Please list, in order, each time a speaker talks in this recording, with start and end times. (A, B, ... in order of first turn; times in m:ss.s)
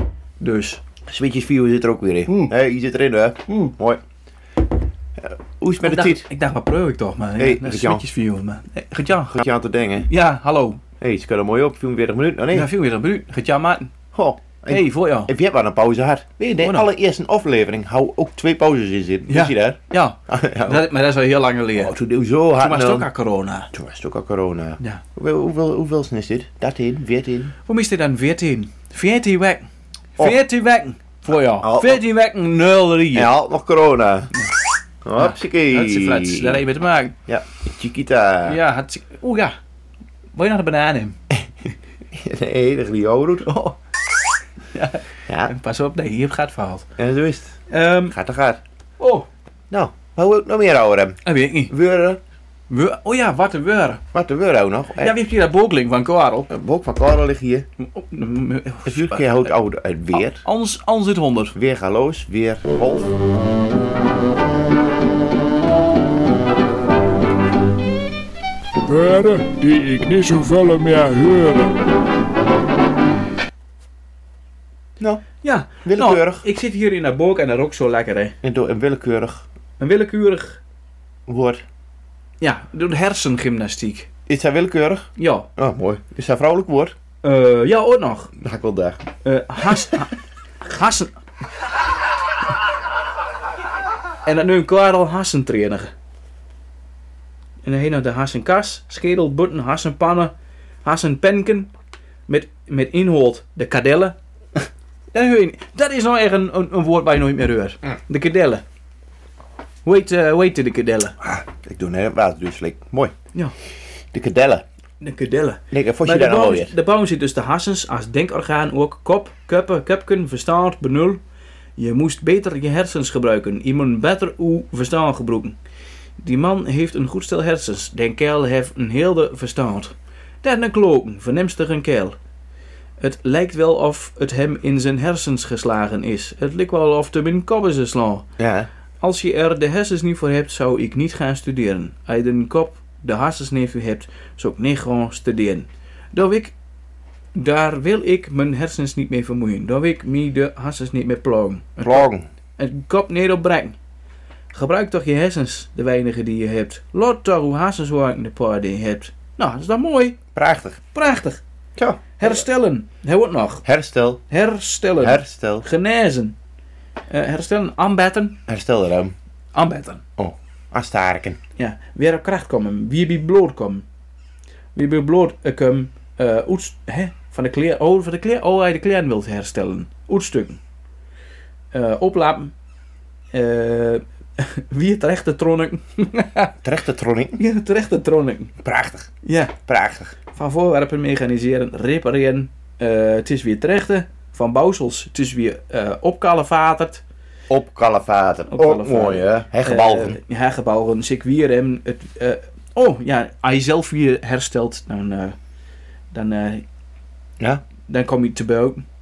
0:00.4-0:00.8 A
0:01.1-0:04.0 B
0:05.2-0:06.2 B
0:05.8-0:09.4 A
0:07.4-0:08.0 B
0:09.3-0:10.1 B
0:10.0-0:10.8 A
0:11.0-0:12.7 B
0:12.5-0:13.9 A
0:14.1-0:20.9 B
0:14.7-0:15.3 A
0:16.6-0:16.9 A
0:19.3-0:21.9 A
0:21.8-0:23.1 B
0:22.6-0:23.7 A
0:23.7-0:27.5 B
0:27.6-0:29.6 A
0:30.2-0:33.3 A
0:31.4-0:32.0 B
0:33.1-0:34.3 B
0:35.0-0:36.6 B
0:35.2-0:37.2 A
0:37.3-0:38.6 B
0:38.4-0:39.6 A
0:40.3-0:41.2 A
0:42.1-0:43.5 B
0:43.4-0:43.8 A
0:44.7-0:46.9 A
0:45.3-0:45.5 B
0:47.0-0:47.6 B
0:47.7-0:48.2 A
0:48.1-0:48.6 B
0:49.0-0:49.3 A
0:49.7-0:51.2 B
0:51.2-0:51.7 A
0:51.7-0:52.2 B
0:52.7-0:54.0 A
0:54.1-0:55.2 B
0:55.0-0:56.5 A
0:56.5-0:57.7 B
0:57.8-0:59.5 A
0:58.8-1:00.4 B
1:00.3-1:01.6 A
1:01.5-1:03.1 B
1:08.8-1:11.7 C
1:15.0-1:15.2 B
1:15.4-1:18.3 A
1:15.8-1:16.4 B
1:18.4-1:19.4 B
1:19.8-1:20.6 A
1:21.3-1:21.6 B
1:22.4-1:24.1 A
1:24.3-1:26.9 B
1:25.2-1:25.5 A
1:27.2-1:28.3 A
1:28.4-1:29.0 B
1:29.2-1:31.2 A
1:34.2-1:35.9 A
1:37.6-1:40.3 A
1:40.8-1:41.7 A
1:42.3-1:48.6 A
1:49.8-1:51.1 A
1:51.2-1:53.1 B
1:54.1-1:54.6 B
1:55.0-2:01.2 A
1:55.7-1:56.7 B
2:01.8-2:05.6 A
2:06.2-2:12.2 A
2:13.0-2:18.3 A
2:18.4-2:18.7 B
2:19.0-2:26.5 A
2:27.3-2:33.8 A
2:31.8-2:32.3 B
2:34.5-2:40.2 A
2:40.3-2:40.8 B
2:40.9-2:41.4 A
2:41.8-2:42.4 B
2:42.2-2:43.6 A
2:43.6-2:44.2 B
2:44.3-2:46.4 A
2:45.0-2:45.6 B
2:47.1-2:48.4 A
2:48.5-2:49.1 B
2:49.5-2:50.0 A
2:50.2-2:51.4 B
2:51.6-2:53.8 A
2:54.7-3:00.6 A
3:01.7-3:02.5 A
3:03.3-3:06.6 A
3:06.6-3:07.4 B
3:07.4-3:08.5 A
3:08.6-3:09.1 B
3:09.2-3:09.6 A
3:09.6-3:10.1 B
3:10.3-3:17.0 A
3:17.5-3:20.2 B
3:18.5-3:25.3 A
3:26.1-3:26.6 A
3:27.9-3:28.8 A